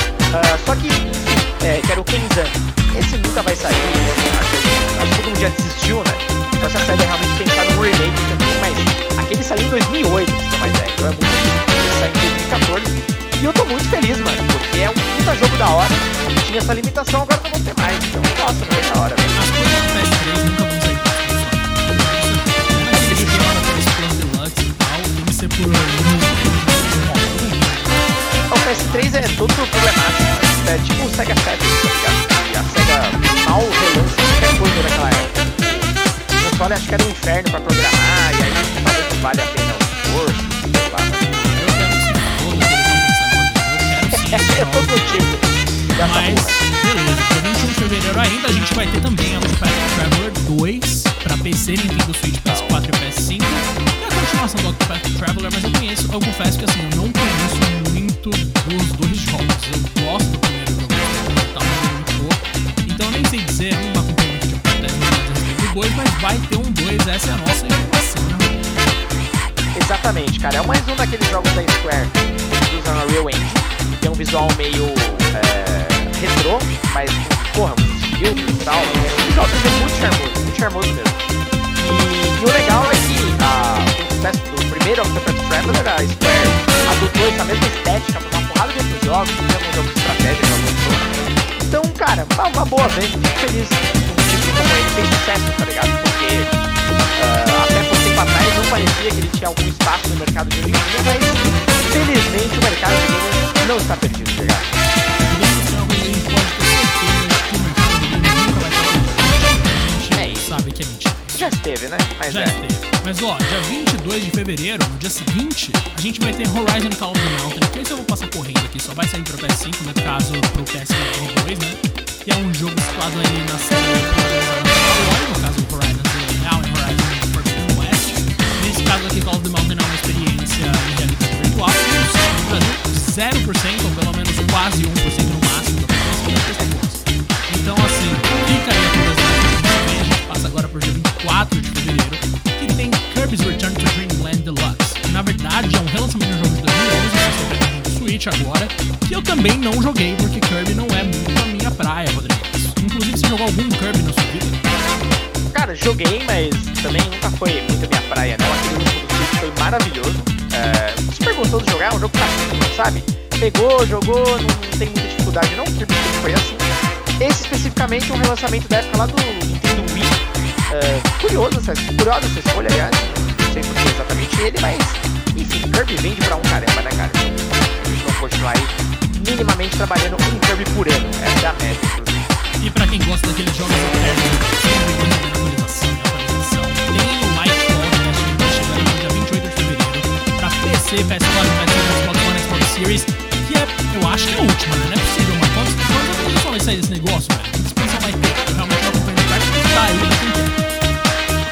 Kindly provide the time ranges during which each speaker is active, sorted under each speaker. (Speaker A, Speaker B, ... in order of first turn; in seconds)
Speaker A: 0.3-19.4, 22.9-23.6, 28.5-41.3, 44.1-46.6, 52.4-52.8, 69.7-81.2, 81.8-96.5, 97.1-104.7, 110.1-110.6, 111.3-112.6, 155.5-182.3
Speaker B: 19.3-29.6, 41.2-45.3, 46.0-68.8, 105.3-111.5, 112.3-154.7, 182.6-200.6